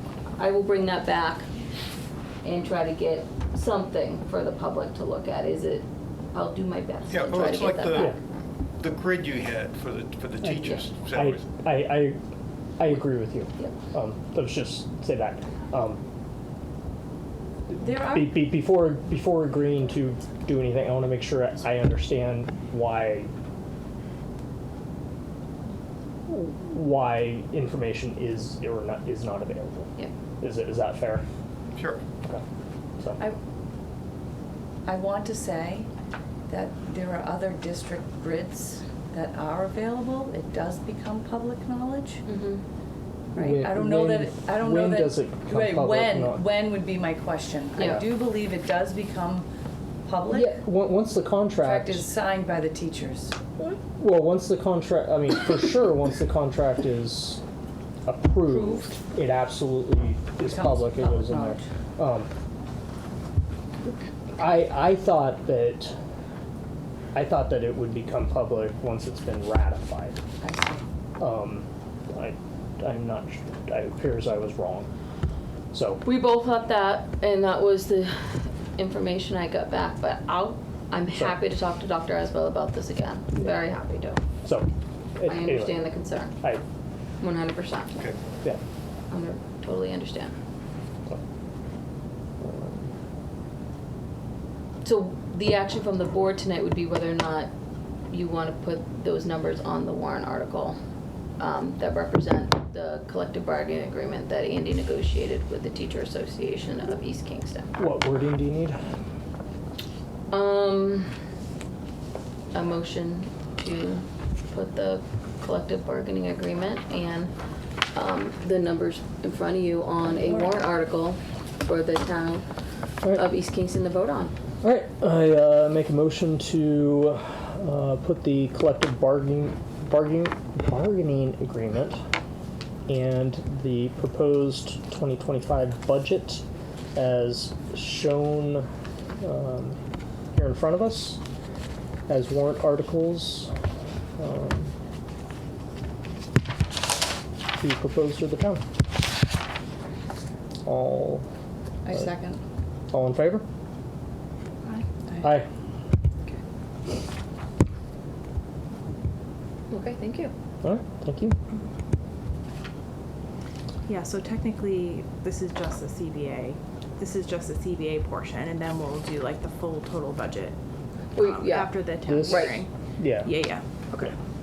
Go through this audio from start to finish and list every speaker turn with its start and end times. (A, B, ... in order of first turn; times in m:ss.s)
0:00.4-0:01.5 A
0:02.4-0:08.2 A
0:07.1-0:08.1 B
0:08.8-0:11.5 B
0:11.1-0:12.2 C
0:12.8-0:16.0 C
0:17.7-0:23.3 C
0:17.8-0:18.4 D
0:26.3-0:31.2 C
0:31.8-0:32.0 B
0:34.9-0:35.9 D
0:36.5-0:42.2 D
0:42.3-0:42.6 A
0:43.4-0:46.4 C
0:43.4-0:49.5 D
0:50.1-0:50.6 D
0:50.3-0:52.1 C
0:51.6-0:53.4 D
0:53.6-0:57.4 C
0:58.1-1:02.3 C
1:00.4-1:01.6 D
1:04.4-1:06.0 C
1:07.1-1:10.2 C
1:10.4-1:10.8 D
1:11.2-1:14.9 C
1:15.7-1:16.0 C
1:16.0-1:24.2 A
1:24.4-1:25.9 C
1:25.3-1:26.4 A
1:27.2-1:27.9 A
1:27.9-1:28.2 B
1:29.1-1:30.3 A
1:32.4-1:32.9 C
1:34.8-1:37.5 A
1:38.1-1:40.8 A
1:41.4-1:47.7 A
1:47.8-1:48.8 C
1:50.3-1:51.1 A
1:52.5-1:57.3 A
1:57.9-2:02.4 A
2:03.1-2:04.3 A
2:04.6-2:12.0 C
2:12.9-2:16.4 C
2:17.0-2:18.7 C
2:19.2-2:19.8 C
2:20.3-2:21.2 C
2:22.1-2:23.5 C
2:24.2-2:24.7 C
2:27.6-2:28.7 C
2:30.6-2:31.3 C
2:31.8-2:32.4 D
2:32.9-2:33.4 C
2:35.2-2:35.5 C
2:39.7-2:40.3 A
2:40.6-2:41.4 C
2:43.9-2:50.6 E
2:51.2-2:52.6 A
2:51.2-2:54.2 E
2:52.1-2:53.3 C